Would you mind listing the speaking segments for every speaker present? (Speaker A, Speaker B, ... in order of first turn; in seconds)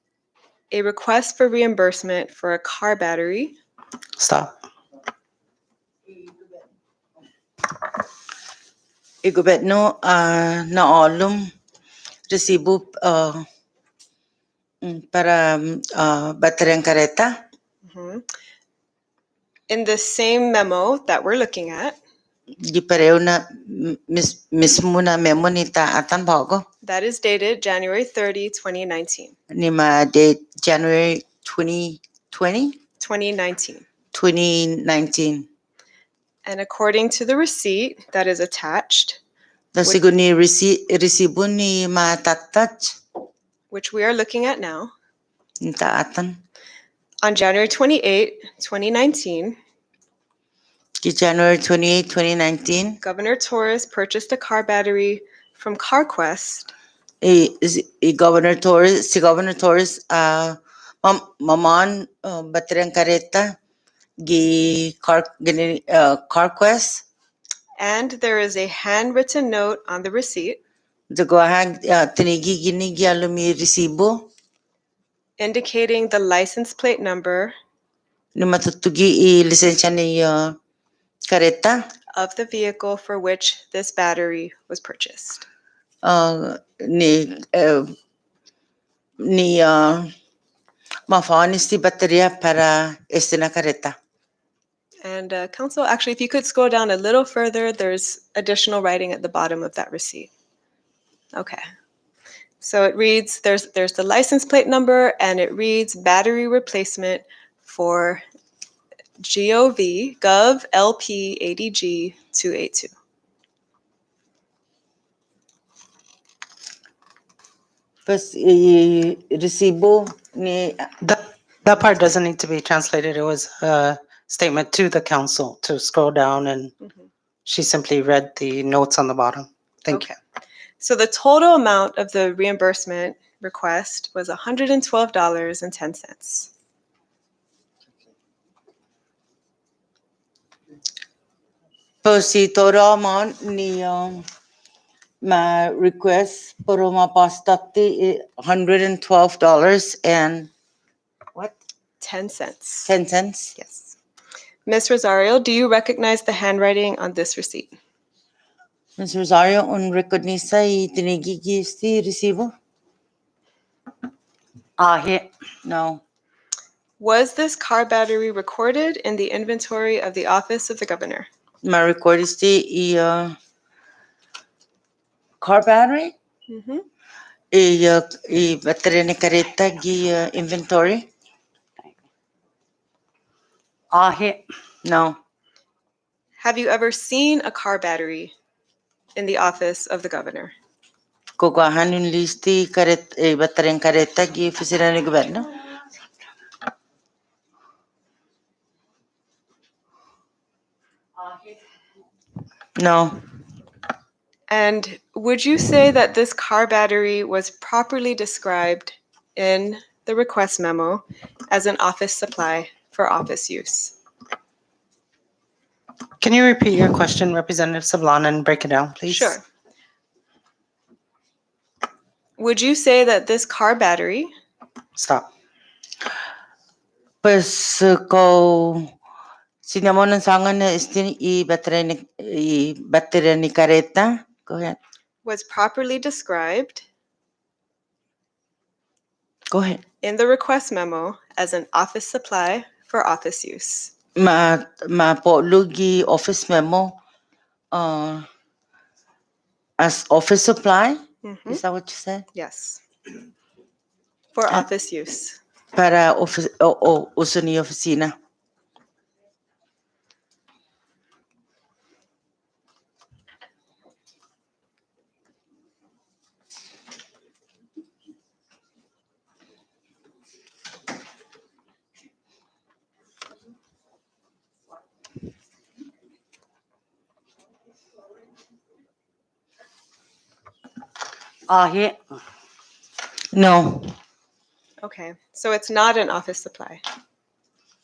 Speaker A: 0.7-3.5, 17.8-18.2, 19.7-22.0, 26.8-29.4, 33.0-33.9, 36.5-39.2, 43.7-44.9, 47.2-49.6, 53.0-56.7, 67.8-70.6, 75.4-77.5, 82.2-85.5, 95.0-100.3, 101.3-101.6, 102.6-108.2, 109.2-112.9, 126.8-127.1, 129.9-130.2, 130.8-136.5, 152.0-152.9, 153.6-153.9, 154.7-157.8, 167.0-171.3, 176.5-176.8, 186.4-188.3, 189.2-190.5, 204.5-213.9, 219.1-219.4, 222.4-224.3, 235.2-236.9, 240.0-243.9, 251.2-251.6, 252.3-252.8, 254.3-255.4, 284.8-286.8
Speaker B: 4.2-4.5, 121.0-126.7, 127.5-130.1, 164.8-165.3, 183.9-184.4, 216.2-219.4, 225.0-225.3, 281.5-282.0
Speaker C: 9.2-11.5, 12.3-13.4, 14.8-17.3, 22.6-26.7, 29.5-32.8, 34.1-35.5, 39.7-43.0, 45.6-46.4, 51.0-53.0, 57.2-63.6, 64.2-67.0, 71.1-74.3, 78.3-80.5, 81.3-81.8, 86.0-87.9, 89.2-90.1, 91.1-94.0, 118.1-120.9, 142.0-144.2, 145.2-150.5, 152.9-153.6, 159.0-162.5, 165.7-166.0, 171.6-173.3, 175.4-176.2, 177.5-181.1, 184.8-185.2, 191.4-195.6, 202.8-203.2, 227.2-228.9, 229.6-234.8, 239.5-239.8, 244.2-247.0, 247.7-248.3, 249.8-252.3, 255.8-258.1, 283.3-283.9